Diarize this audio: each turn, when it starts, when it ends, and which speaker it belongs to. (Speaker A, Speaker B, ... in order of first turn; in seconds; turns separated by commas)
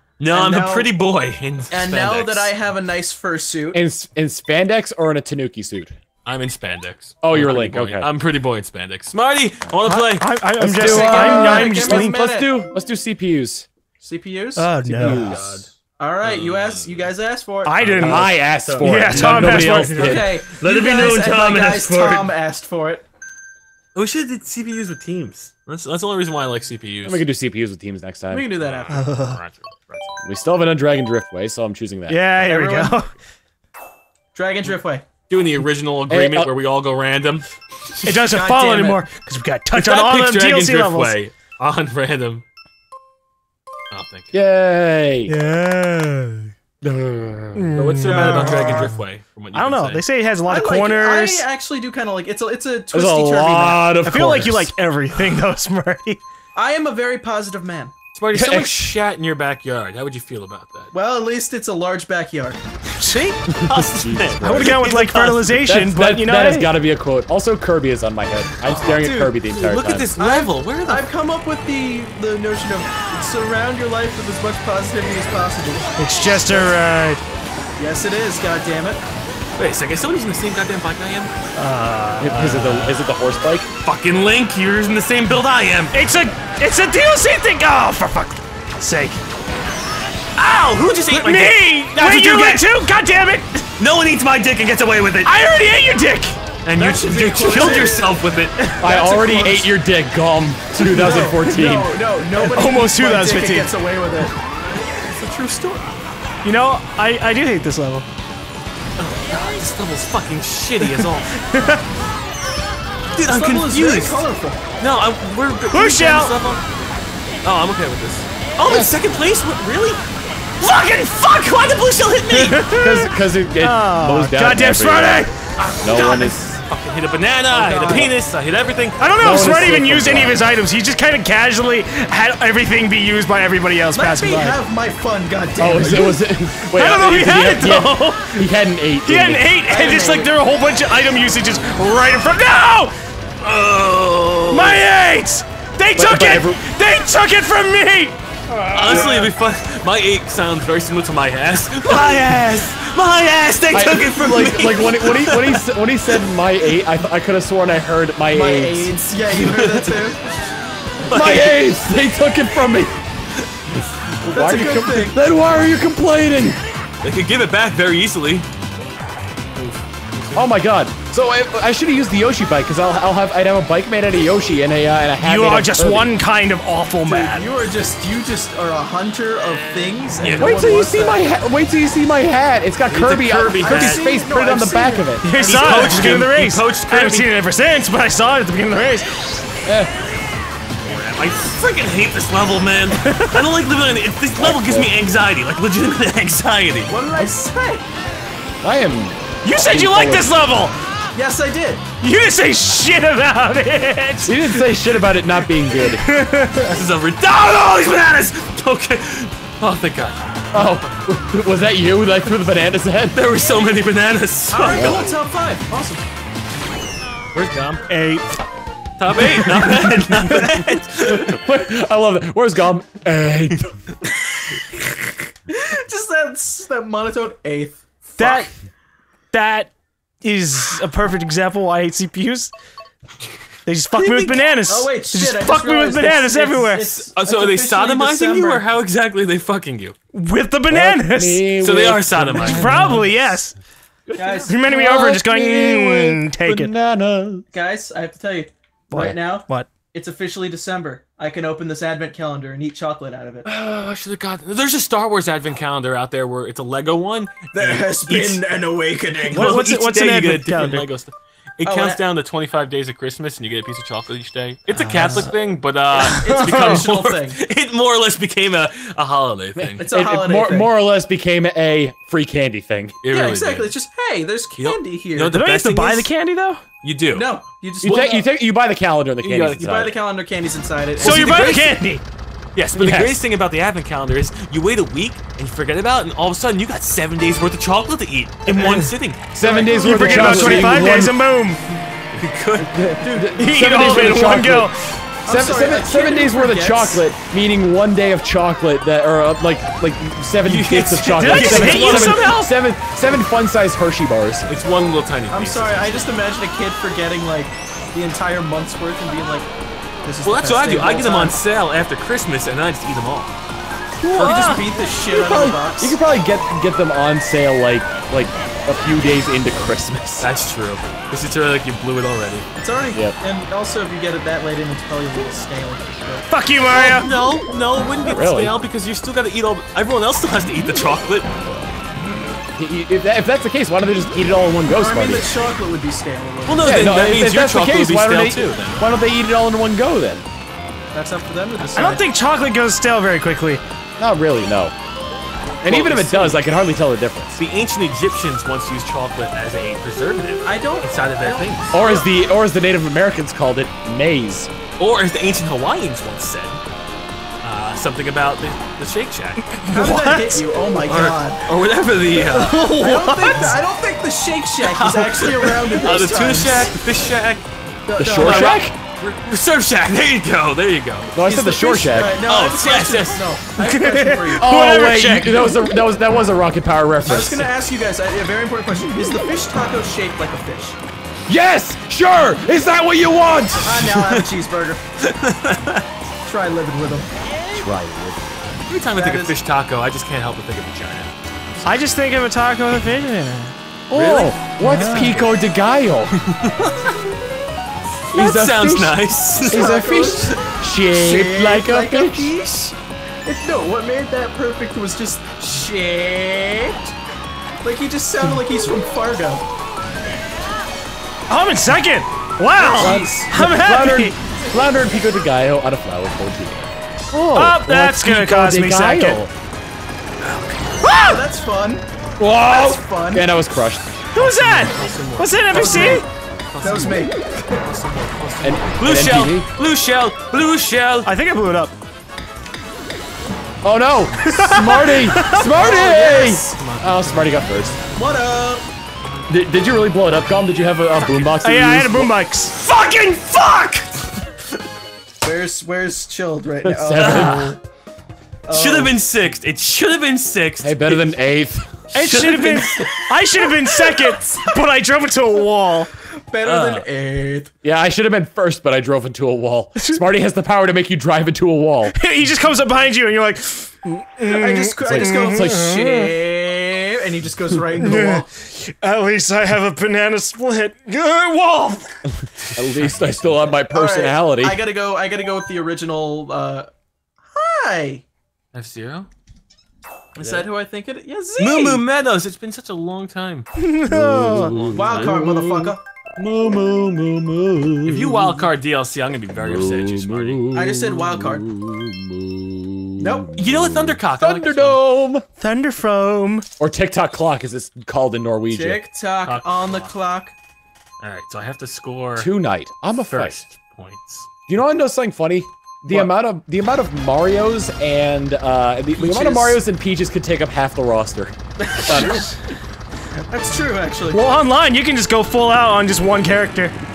Speaker A: 0.2-2.5, Speaker B: 0.3-0.9, Speaker B: 1.7-3.8, Speaker C: 3.7-5.9, Speaker A: 6.2-10.3, Speaker C: 7.2-8.1, Speaker D: 9.8-12.1, Speaker C: 10.6-13.7, Speaker B: 10.8-12.5, Speaker B: 14.0-15.4, Speaker D: 14.6-15.3, Speaker C: 14.8-15.6, Speaker A: 15.0-15.7, Speaker B: 16.0-18.3, Speaker A: 16.2-17.1, Speaker D: 17.6-20.1, Speaker A: 17.8-22.3, Speaker C: 18.0-20.4, Speaker B: 20.0-23.1, Speaker A: 23.9-27.2, Speaker C: 27.1-28.5, Speaker B: 28.3-29.1, Speaker A: 28.6-30.2, Speaker D: 28.9-29.4, Speaker C: 30.2-32.3, Speaker D: 32.1-33.1, Speaker B: 32.4-33.0, Speaker B: 34.4-35.0, Speaker A: 35.3-38.2, Speaker C: 36.1-36.5, Speaker D: 38.0-41.2, Speaker B: 38.3-39.0, Speaker A: 39.7-42.4, Speaker A: 43.9-44.3, Speaker C: 44.3-45.3, Speaker D: 45.3-46.5, Speaker C: 46.8-47.9, Speaker D: 47.5-48.8, Speaker A: 47.8-50.1, Speaker B: 48.0-48.9, Speaker D: 49.5-51.4, Speaker B: 50.5-54.0, Speaker C: 52.9-54.7, Speaker D: 54.0-56.2, Speaker B: 56.5-57.9, Speaker A: 58.1-60.9, Speaker C: 58.3-58.8, Speaker B: 60.9-62.6, Speaker A: 63.1-65.5, Speaker C: 63.6-64.8, Speaker D: 64.4-66.7, Speaker C: 65.5-70.1, Speaker A: 68.7-71.1, Speaker B: 68.8-69.4, Speaker B: 70.2-76.8, Speaker D: 76.0-77.2, Speaker B: 77.8-79.0, Speaker A: 79.6-81.4, Speaker D: 81.5-82.3, Speaker C: 82.2-83.7, Speaker A: 82.3-83.0, Speaker A: 83.8-86.0, Speaker D: 85.9-89.2, Speaker A: 90.4-92.7, Speaker D: 90.9-93.7, Speaker A: 93.8-95.4, Speaker D: 95.2-96.4, Speaker A: 96.6-98.6, Speaker B: 96.8-98.2, Speaker C: 98.8-102.0, Speaker B: 98.8-99.7, Speaker B: 100.9-104.3, Speaker D: 100.9-101.3, Speaker D: 102.4-103.7, Speaker A: 104.9-106.0, Speaker D: 106.4-108.1, Speaker A: 109.0-111.4, Speaker D: 110.8-111.8, Speaker A: 113.1-114.2, Speaker B: 113.2-114.6, Speaker A: 114.8-116.6, Speaker D: 115.7-116.3, Speaker A: 117.4-120.0, Speaker C: 118.6-119.0, Speaker A: 120.6-122.6, Speaker D: 122.3-125.3, Speaker C: 122.8-125.3, Speaker A: 125.6-129.2, Speaker C: 125.8-126.4, Speaker B: 127.5-128.2, Speaker D: 129.0-134.6, Speaker C: 129.2-130.4, Speaker B: 133.9-136.2, Speaker C: 135.6-139.5, Speaker D: 136.7-138.5, Speaker D: 139.1-142.9, Speaker B: 139.7-140.3, Speaker A: 143.4-144.8, Speaker D: 144.5-149.3, Speaker C: 145.9-146.6, Speaker A: 148.7-155.7, Speaker C: 153.7-158.9, Speaker B: 158.3-160.3, Speaker A: 159.3-160.1, Speaker A: 161.1-161.5, Speaker C: 161.1-163.0, Speaker C: 164.2-166.6, Speaker B: 164.3-165.2, Speaker A: 167.0-168.5, Speaker A: 169.6-170.5, Speaker C: 170.3-176.1, Speaker D: 175.2-177.5, Speaker B: 177.0-181.2, Speaker A: 179.4-180.6, Speaker C: 180.4-186.2, Speaker A: 182.9-184.1, Speaker B: 183.6-185.9, Speaker D: 185.2-189.1, Speaker A: 185.4-187.3, Speaker C: 189.7-189.9, Speaker A: 190.8-196.9, Speaker D: 192.9-193.5, Speaker C: 194.4-194.9, Speaker B: 196.9-197.8, Speaker C: 198.6-200.3, Speaker D: 199.4-200.8, Speaker B: 201.2-201.8, Speaker D: 202.0-204.6, Speaker C: 204.2-206.0, Speaker D: 205.8-206.8, Speaker A: 206.6-210.2, Speaker C: 210.5-213.2, Speaker A: 213.1-215.1, Speaker B: 214.5-216.0, Speaker C: 214.7-215.1, Speaker A: 217.3-217.9, Speaker D: 217.9-218.3, Speaker A: 219.0-221.4, Speaker C: 219.3-223.7, Speaker B: 225.5-228.5, Speaker D: 228.2-228.5, Speaker D: 229.3-232.5, Speaker D: 233.7-237.1, Speaker B: 233.9-238.7, Speaker A: 237.1-239.9, Speaker D: 240.1-241.5, Speaker C: 240.7-243.2, Speaker A: 241.6-242.8, Speaker D: 242.4-243.6, Speaker B: 244.2-244.6, Speaker D: 244.5-246.7, Speaker C: 244.5-247.4, Speaker B: 247.5-253.5, Speaker D: 248.9-249.7, Speaker A: 253.4-258.4, Speaker B: 257.5-259.6, Speaker D: 259.3-260.9, Speaker A: 259.3-269.9, Speaker B: 261.6-262.0, Speaker D: 266.0-266.8, Speaker B: 266.0-267.4, Speaker C: 269.6-273.0, Speaker B: 269.8-270.7, Speaker A: 273.0-273.7, Speaker B: 273.1-275.4, Speaker A: 274.6-276.1, Speaker D: 275.3-276.6, Speaker A: 276.8-277.3, Speaker B: 277.1-278.3, Speaker C: 277.8-280.0, Speaker A: 279.2-279.8, Speaker B: 279.6-281.8, Speaker D: 281.0-282.0, Speaker A: 281.0-281.3, Speaker A: 282.6-289.4, Speaker C: 282.8-283.2, Speaker D: 288.5-288.9, Speaker B: 289.4-290.9, Speaker C: 289.4-291.2, Speaker D: 289.8-291.7, Speaker A: 292.1-292.8, Speaker C: 292.6-294.7, Speaker D: 293.4-294.8, Speaker B: 295.2-297.1, Speaker C: 295.3-304.5, Speaker A: 300.4-302.5, Speaker D: 301.1-302.4, Speaker A: 304.5-306.1, Speaker B: 305.3-309.5, Speaker B: 310.0-311.4, Speaker A: 310.2-313.4, Speaker D: 314.0-314.6, Speaker B: 314.1-316.0, Speaker C: 315.1-320.3, Speaker A: 320.2-322.5, Speaker B: 322.6-326.3, Speaker D: 326.3-327.1, Speaker A: 326.7-331.3, Speaker C: 328.1-328.6, Speaker C: 332.6-335.3, Speaker B: 334.7-337.2, Speaker A: 336.5-338.9, Speaker C: 336.6-340.2, Speaker B: 340.9-342.0, Speaker D: 341.7-343.6, Speaker C: 344.0-344.7, Speaker C: 345.6-347.4, Speaker A: 345.7-346.4, Speaker A: 347.4-351.9, Speaker B: 350.4-352.1, Speaker C: 351.7-354.5, Speaker A: 354.8-356.6, Speaker A: 357.4-359.5, Speaker D: 359.6-360.4, Speaker B: 359.7-361.4, Speaker A: 360.9-362.7, Speaker D: 362.2-363.6, Speaker B: 362.7-366.8, Speaker A: 364.6-367.5, Speaker B: 367.9-368.6, Speaker C: 368.0-368.8, Speaker A: 368.1-371.1, Speaker C: 371.1-372.2, Speaker B: 371.2-374.5, Speaker A: 372.2-373.3, Speaker D: 373.6-375.8, Speaker C: 374.4-377.5, Speaker B: 377.0-380.8, Speaker C: 381.3-384.0, Speaker B: 383.6-384.8, Speaker A: 383.9-384.2, Speaker A: 385.0-385.9, Speaker B: 386.2-387.1, Speaker C: 387.5-388.4, Speaker A: 388.7-391.8, Speaker B: 388.9-389.3, Speaker D: 391.6-393.6, Speaker C: 393.9-396.1, Speaker A: 393.9-395.3, Speaker D: 394.6-395.2, Speaker A: 396.2-397.0, Speaker A: 398.1-399.9, Speaker C: 398.1-402.3, Speaker B: 399.5-402.8, Speaker B: 403.3-406.9, Speaker B: 407.6-409.4, Speaker D: 411.3-414.1, Speaker B: 412.6-413.3, Speaker C: 412.8-419.3, Speaker D: 417.3-419.2, Speaker A: 420.2-420.7, Speaker D: 420.8-421.2, Speaker B: 421.1-421.8, Speaker C: 422.2-423.9, Speaker B: 422.5-423.3, Speaker D: 424.1-426.1, Speaker A: 424.2-431.1, Speaker B: 425.5-426.0, Speaker B: 426.6-427.2, Speaker C: 428.4-429.5, Speaker D: 431.1-431.8, Speaker C: 433.6-437.8, Speaker D: 434.2-435.5, Speaker B: 435.5-436.6, Speaker A: 436.5-438.3, Speaker B: 438.0-438.7, Speaker A: 439.0-439.3, Speaker C: 439.3-442.1, Speaker D: 441.4-442.6, Speaker A: 442.5-444.1, Speaker B: 445.2-447.5, Speaker C: 446.6-447.6, Speaker A: 446.9-447.6, Speaker B: 448.5-449.0, Speaker A: 448.5-451.1, Speaker C: 450.6-451.8, Speaker A: 451.9-453.1, Speaker D: 451.9-455.9, Speaker B: 456.3-457.5, Speaker A: 456.4-456.9, Speaker C: 457.6-462.0, Speaker D: 461.9-466.1, Speaker B: 464.2-468.3, Speaker C: 464.9-465.8, Speaker D: 467.8-472.0, Speaker C: 472.6-474.6, Speaker A: 472.6-473.5, Speaker B: 473.7-476.7, Speaker B: 477.3-478.0, Speaker A: 478.5-479.1, Speaker B: 480.2-481.8, Speaker A: 481.4-483.5, Speaker D: 483.6-484.6, Speaker C: 483.9-488.5, Speaker A: 484.4-485.1, Speaker B: 484.8-485.8, Speaker A: 487.9-490.4, Speaker C: 489.3-495.2, Speaker B: 490.5-491.5, Speaker B: 493.0-493.3, Speaker A: 493.4-494.8, Speaker D: 495.4-496.4, Speaker C: 496.6-498.8, Speaker B: 498.5-500.3, Speaker A: 499.2-499.9, Speaker A: 501.0-502.3, Speaker C: 502.2-503.4, Speaker A: 503.1-504.3, Speaker C: 504.5-512.3, Speaker B: 508.9-509.6, Speaker B: 511.7-512.3, Speaker B: 513.3-514.3, Speaker D: 514.1-516.8